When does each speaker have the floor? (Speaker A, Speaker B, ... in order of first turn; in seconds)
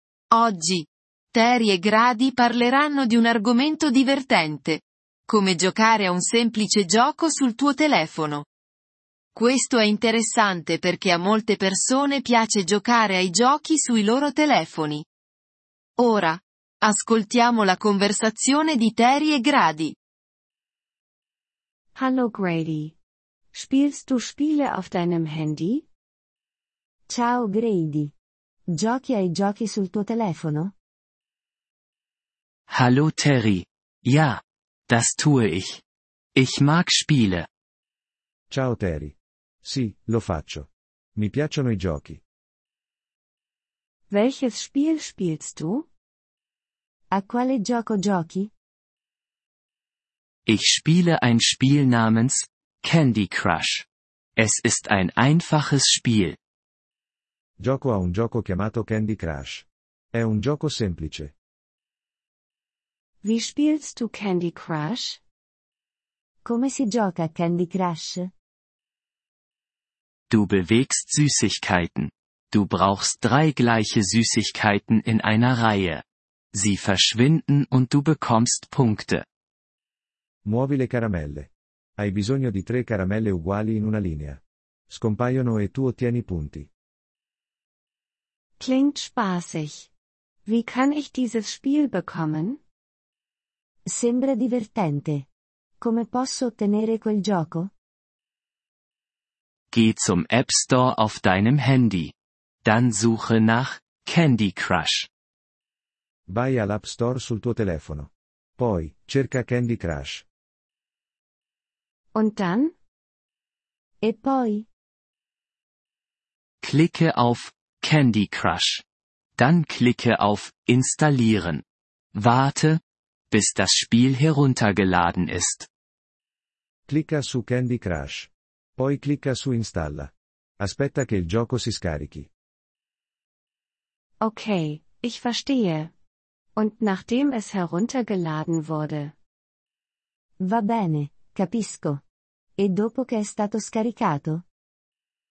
Speaker A: 0.3-8.5, 9.3-15.1, 16.0-20.0
Speaker B: 21.9-23.0, 23.5-25.9, 44.1-45.9, 63.2-65.2, 88.6-89.9, 90.5-92.6, 112.1-112.8, 134.2-135.9, 136.6-139.2
Speaker C: 27.1-28.1, 28.8-30.7, 47.1-48.5, 66.5-68.3, 93.9-95.3, 95.8-97.7, 114.0-114.7, 140.4-142.0, 142.6-144.4
Speaker D: 32.7-35.8, 36.4-37.5, 50.5-53.9, 54.4-56.4, 70.3-76.0, 76.5-79.2, 99.7-105.1, 116.6-118.8, 119.4-121.6, 122.2-125.7
Speaker E: 38.5-42.2, 57.6-61.3, 80.5-86.7, 106.3-110.2, 126.9-132.3